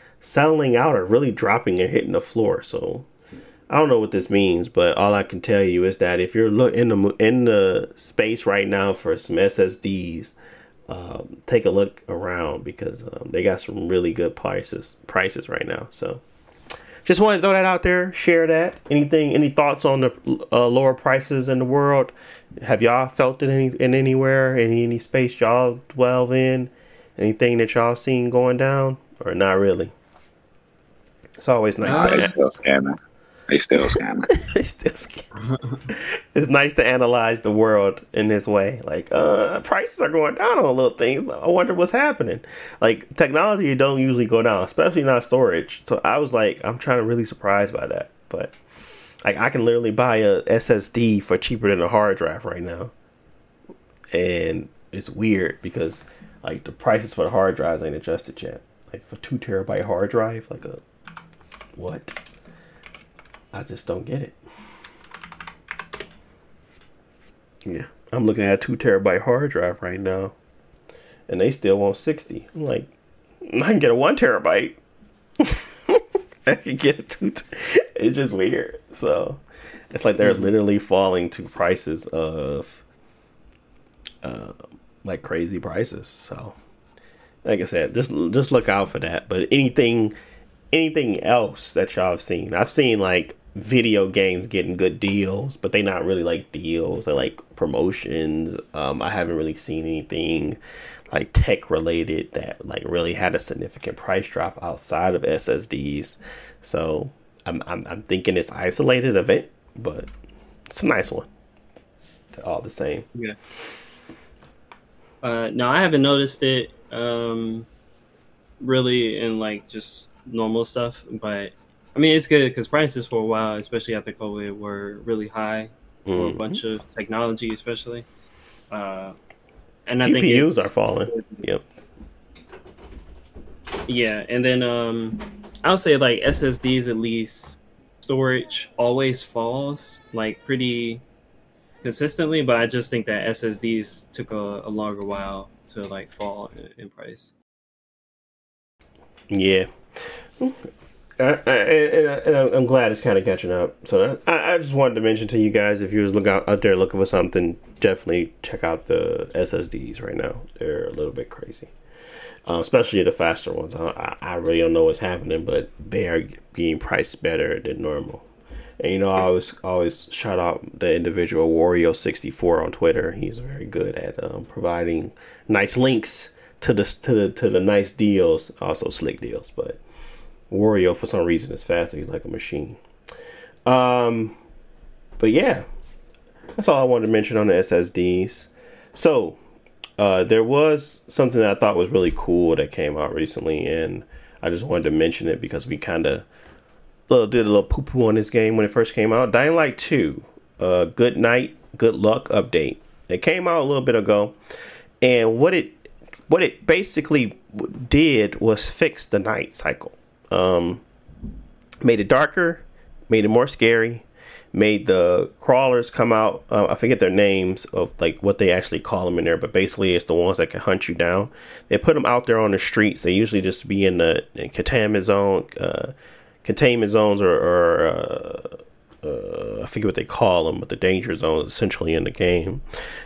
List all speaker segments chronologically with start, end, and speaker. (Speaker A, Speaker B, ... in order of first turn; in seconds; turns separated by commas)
Speaker A: 0.2-3.1, Speaker A: 3.7-10.4, Speaker A: 10.9-16.2, Speaker A: 17.1-29.9, Speaker A: 31.4-32.3, Speaker B: 31.9-32.3, Speaker C: 31.9-33.0, Speaker C: 33.5-34.3, Speaker A: 34.3-35.3, Speaker B: 35.4-35.8, Speaker A: 35.9-48.5, Speaker A: 49.2-52.9, Speaker A: 54.1-60.8, Speaker A: 61.8-62.2, Speaker A: 63.5-64.4, Speaker A: 67.7-70.3, Speaker A: 71.3-72.9, Speaker A: 73.5-74.8, Speaker A: 75.4-82.8, Speaker B: 80.2-80.5, Speaker A: 84.2-86.6, Speaker A: 87.4-90.2, Speaker A: 90.7-100.6, Speaker A: 101.1-110.1, Speaker A: 110.7-111.3, Speaker A: 112.3-113.1, Speaker B: 115.2-117.7, Speaker B: 118.6-128.1, Speaker A: 126.1-126.6, Speaker B: 128.7-129.2, Speaker B: 129.9-131.4, Speaker A: 130.0-131.6, Speaker B: 133.9-141.0, Speaker B: 141.8-147.3, Speaker A: 149.3-161.7, Speaker A: 162.5-168.3, Speaker A: 168.8-179.8, Speaker A: 180.5-182.8, Speaker A: 183.7-184.4, Speaker A: 185.2-185.7, Speaker A: 186.6-189.4, Speaker A: 190.0-196.3, Speaker A: 197.1-204.4, Speaker A: 205.0-210.8, Speaker A: 211.8-225.9, Speaker A: 226.4-232.6